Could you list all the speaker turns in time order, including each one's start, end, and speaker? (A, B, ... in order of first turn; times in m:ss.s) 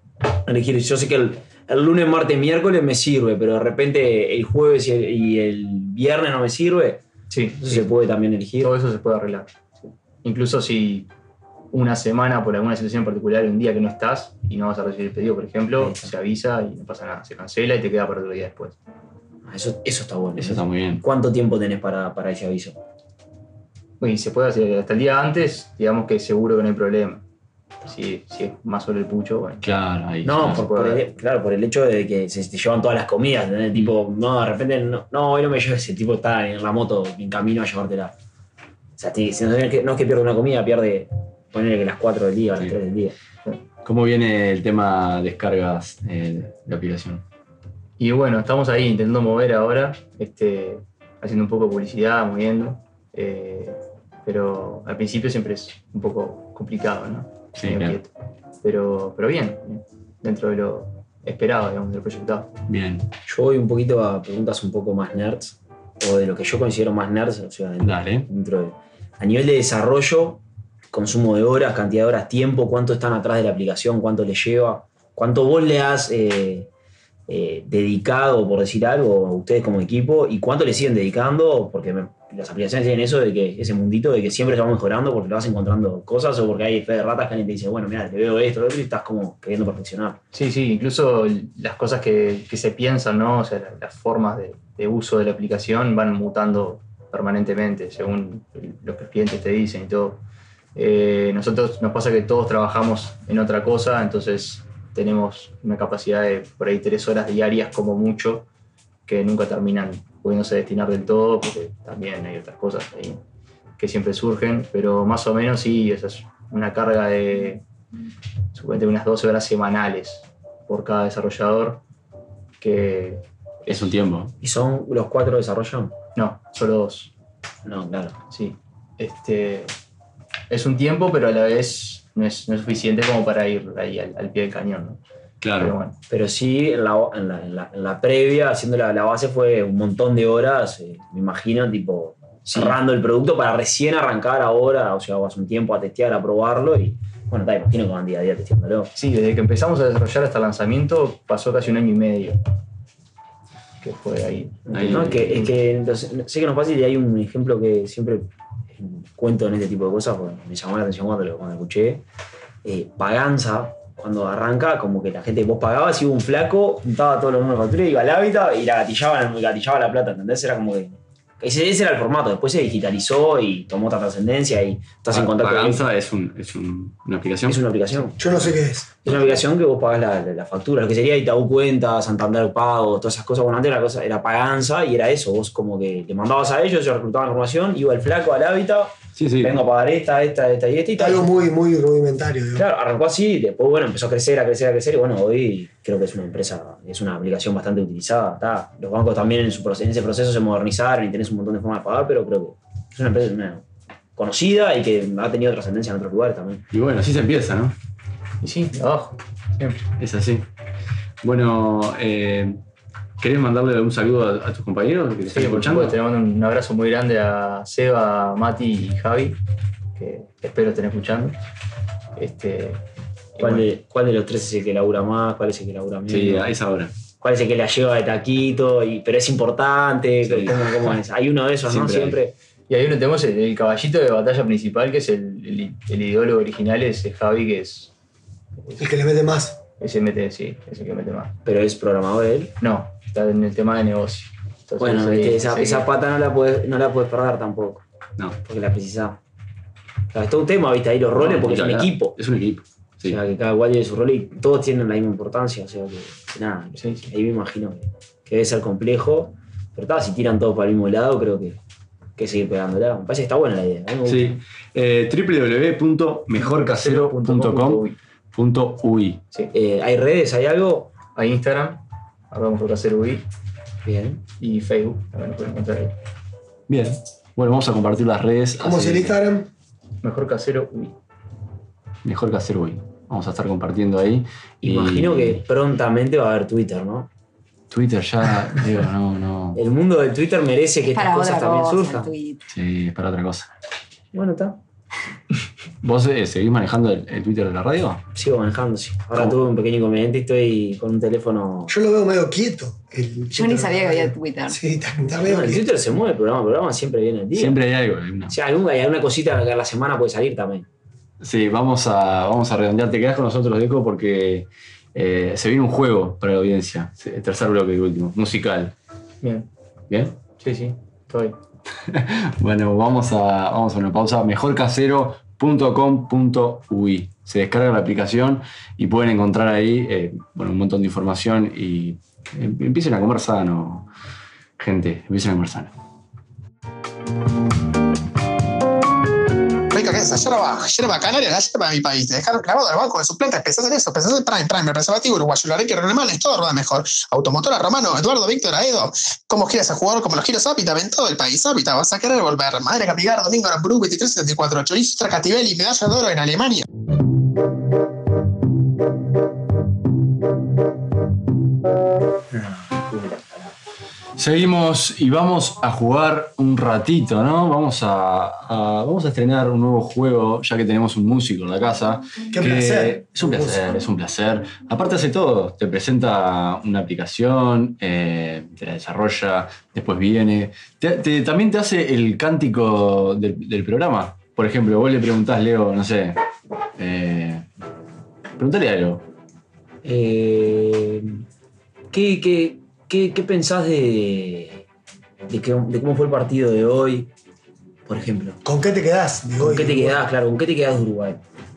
0:00.5-0:07.0 A
0:07.3-0:07.9 B
0:07.6-0:08.7 A
0:08.6-0:11.1 B
0:11.7-0:18.8 B
0:15.8-0:16.1 A
0:19.4-0:22.8 A
0:20.4-0:21.0 C
0:24.0-0:27.2 B
0:27.9-0:29.7 B
0:29.6-0:30.7 C
0:30.2-0:38.1 A
0:30.6-0:31.1 B
0:39.0-0:43.2 A
0:43.8-0:47.2 C
0:48.0-0:58.1 B
0:57.6-0:58.0 C
0:58.6-1:02.5 B
1:02.7-1:03.1 C
1:03.3-1:10.4 A
1:07.8-1:08.3 C
1:10.9-1:16.7 A
1:17.3-1:30.2 A
1:30.3-1:40.2 B
1:40.8-1:48.5 B
1:49.1-1:53.2 B
1:53.8-1:57.6 B
1:58.5-2:01.8 B
2:02.6-2:04.0 B
2:03.7-2:04.3 C
2:04.4-2:06.0 A
2:06.2-2:07.1 B
2:07.6-2:08.2 A
2:08.3-2:09.7 B
2:10.5-2:15.0 B
2:15.4-2:15.8 C
2:15.6-2:16.0 B
2:16.1-2:28.9 A
2:29.0-2:32.4 B
2:33.8-2:34.7 B
2:34.7-2:42.0 A
2:34.7-2:35.5 C
2:42.6-2:55.8 A
2:55.1-2:57.6 C
2:57.5-2:58.5 A
2:58.2-2:59.0 D
2:59.0-3:11.3 A
3:09.2-3:09.6 C
3:11.0-3:12.7 D
3:12.6-3:23.6 A
3:24.2-3:26.6 A
3:26.7-3:27.8 C
3:28.4-3:29.8 B
3:30.0-3:30.5 C
3:31.2-3:32.6 C
3:33.2-3:36.0 C
3:35.3-3:39.4 B
3:40.0-3:41.4 B
3:42.2-3:42.8 B
3:43.4-3:43.7 B
3:43.4-3:46.5 A
3:46.1-3:46.9 C
3:47.2-3:52.3 A
3:50.2-3:51.0 C
3:51.7-3:52.2 C
3:52.7-3:57.9 B
3:58.6-3:58.9 B
3:58.8-3:59.6 D
3:59.8-4:01.4 B
4:01.4-4:02.6 A
4:02.6-4:05.9 B
4:04.8-4:07.8 A
4:08.4-4:09.2 A
4:10.1-4:12.2 A
4:11.2-4:13.2 C
4:13.1-4:21.6 A
4:22.2-4:24.4 A
4:24.1-4:29.2 C
4:26.3-4:28.0 B
4:29.5-4:31.0 A
4:31.1-4:33.2 B
4:33.8-4:34.2 A
4:34.4-4:36.0 B
4:36.7-4:39.2 C
4:38.6-4:39.5 D
4:40.0-4:41.0 B
4:42.0-4:45.4 C
4:44.6-4:47.1 A
4:47.7-4:49.6 C
4:49.6-4:52.1 A
4:50.9-4:52.4 E
4:52.5-4:53.5 C
4:54.1-4:54.6 A
4:55.8-4:58.0 C
4:58.2-5:01.7 A
5:01.7-5:05.7 D
5:03.3-5:04.6 E
5:05.2-5:07.6 A
5:07.4-5:08.4 C
5:08.3-5:10.7 A
5:11.2-5:18.7 C
5:19.2-5:19.5 B
5:20.4-5:21.4 B
5:21.9-5:33.9 C
5:34.6-5:35.7 C
5:39.7-5:56.7 F
6:04.2-6:26.2 C
6:12.3-6:13.7 D
6:26.8-6:27.4 C
6:28.4-6:29.0 C
6:29.8-6:31.2 A
6:31.9-6:34.6 A
6:35.3-6:37.1 A
6:37.9-6:38.4 A
6:38.4-6:40.0 D
6:39.4-6:41.2 A